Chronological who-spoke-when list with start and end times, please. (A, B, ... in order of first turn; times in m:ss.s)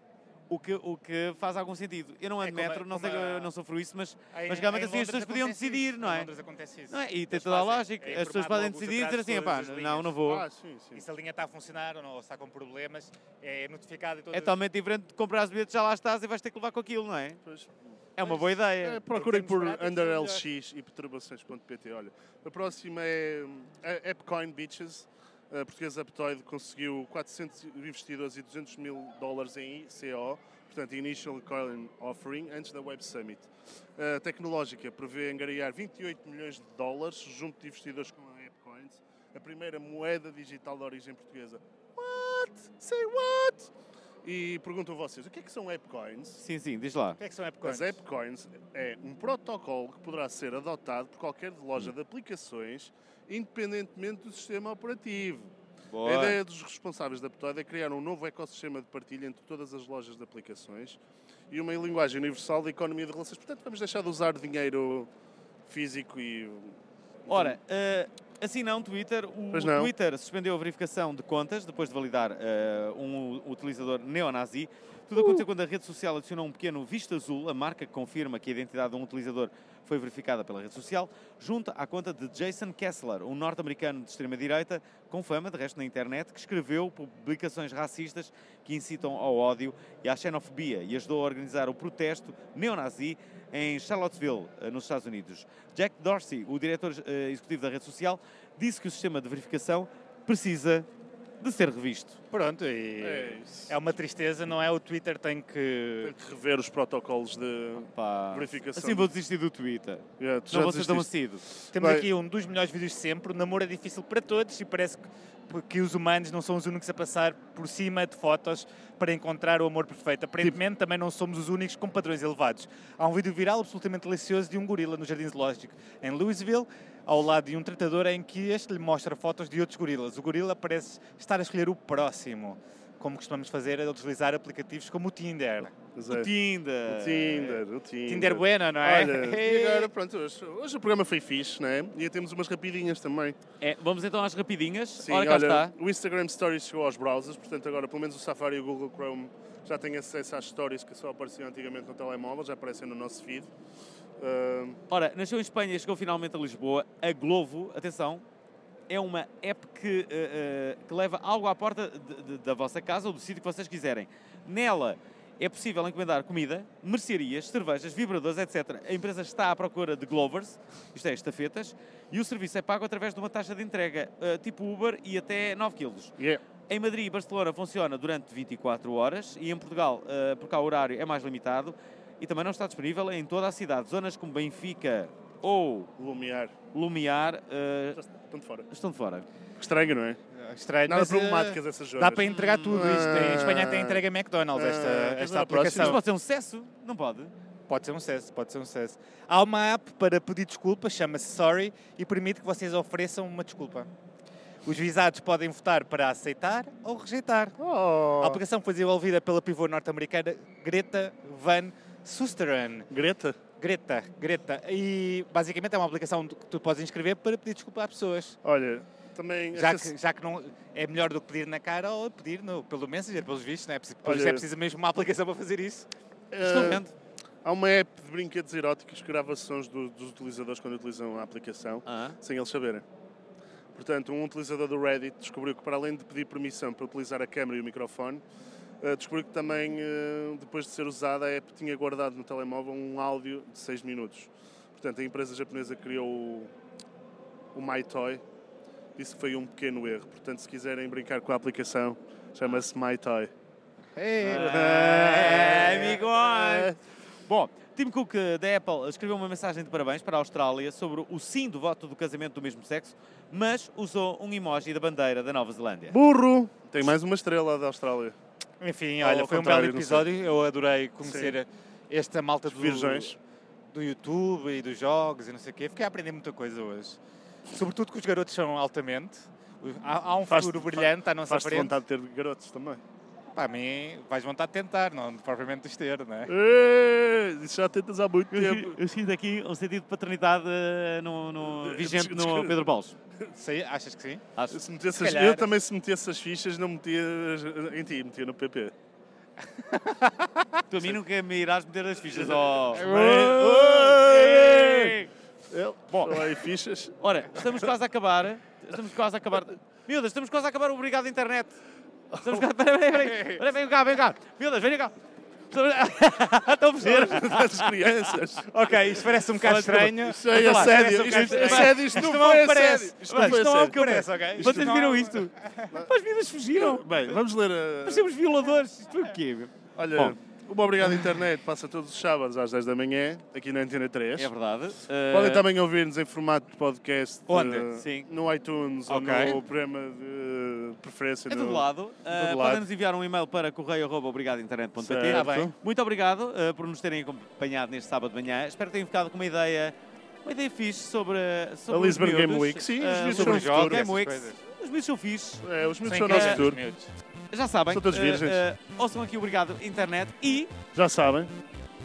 0:00.5-0:06.3 A
0:02.4-0:03.5 B
0:04.3-0:10.1 B
0:06.9-0:10.5 A
0:10.2-0:11.0 C
0:11.0-0:14.6 B
0:14.3-0:17.4 A
0:17.4-0:43.7 C
0:18.2-0:19.8 A
0:19.4-0:20.4 B
0:44.2-0:46.4 C
0:46.4-0:47.2 A
0:47.2-0:48.0 B
0:47.6-0:55.5 C
0:55.9-0:56.4 A
0:56.0-1:05.1 C
1:05.7-1:07.6 C
1:07.3-1:40.9 A
1:09.5-1:09.9 C
1:15.2-1:15.4 C
1:41.4-1:42.2 A
1:42.3-1:46.1 B
1:43.0-1:43.8 C
1:46.0-1:49.1 C
1:47.8-1:51.4 A
1:50.2-1:52.1 C
1:51.7-2:15.7 B
2:16.0-2:16.3 C
2:16.1-2:17.6 A
2:16.9-2:23.4 C
2:18.1-2:19.9 B
2:23.6-2:25.7 A
2:25.0-2:33.5 C
2:34.2-2:34.8 C
2:34.9-2:38.2 A
2:38.9-2:56.1 A
2:56.7-3:05.9 A
3:06.0-3:06.6 C
3:06.7-3:08.0 A
3:08.0-3:08.7 C
3:08.7-3:09.3 A
3:09.6-3:10.2 C
3:10.3-3:16.0 B
3:10.9-3:14.0 C
3:12.3-3:13.1 A
3:14.5-3:16.0 C
3:15.7-3:17.3 A
3:17.7-3:23.9 B
3:24.7-3:27.6 B
3:27.6-3:28.4 C
3:28.2-3:32.9 B
3:32.9-3:33.4 C
3:33.6-3:38.4 B
3:38.4-3:39.9 C
3:39.5-3:45.9 B
3:44.0-3:44.5 C
3:46.3-3:46.8 C
3:46.4-3:46.9 A
3:47.4-3:52.8 C
3:51.9-3:52.2 A
3:53.8-3:58.2 C
3:58.8-4:06.5 C
4:07.5-4:08.2 C
4:09.0-4:13.3 C
4:14.0-4:14.4 B
4:14.2-4:16.8 C
4:14.2-4:26.0 A
4:25.9-4:28.2 C
4:28.6-4:33.2 B
4:29.0-4:30.1 C
4:31.0-4:31.4 C
4:32.5-4:33.2 C
4:33.7-4:37.0 B
4:37.5-4:41.8 B
4:40.3-4:42.8 C
4:43.4-4:46.3 B
4:46.3-4:48.8 C
4:48.3-4:52.9 A
4:51.4-4:52.7 C
4:53.4-4:54.3 B
4:54.5-4:58.7 C
4:54.9-4:55.5 B
4:59.7-5:00.3 B
5:00.7-5:05.1 A
5:02.1-5:05.0 C
5:05.5-5:07.7 C
5:05.9-5:06.3 A
5:07.0-5:11.6 A
5:12.1-5:12.5 C
5:12.2-5:15.0 A
5:15.5-5:18.1 A
5:16.8-5:25.0 C
5:18.5-5:25.7 B
5:19.4-5:27.2 A
5:26.6-5:28.1 C
5:27.8-5:30.2 A
5:29.8-5:34.3 C
5:34.2-5:35.4 A
5:35.1-5:42.7 C
5:37.3-5:37.7 B
5:37.8-5:38.1 A
5:38.9-5:39.4 B
5:41.3-5:55.4 A
5:44.8-5:45.5 C
5:45.1-5:45.5 B
5:51.7-5:53.9 C
5:53.0-5:54.4 B
5:55.4-5:56.6 C
5:55.9-5:56.9 B
5:56.0-5:56.4 A
5:57.3-6:00.5 A
5:57.7-5:58.4 C
6:00.7-6:01.3 C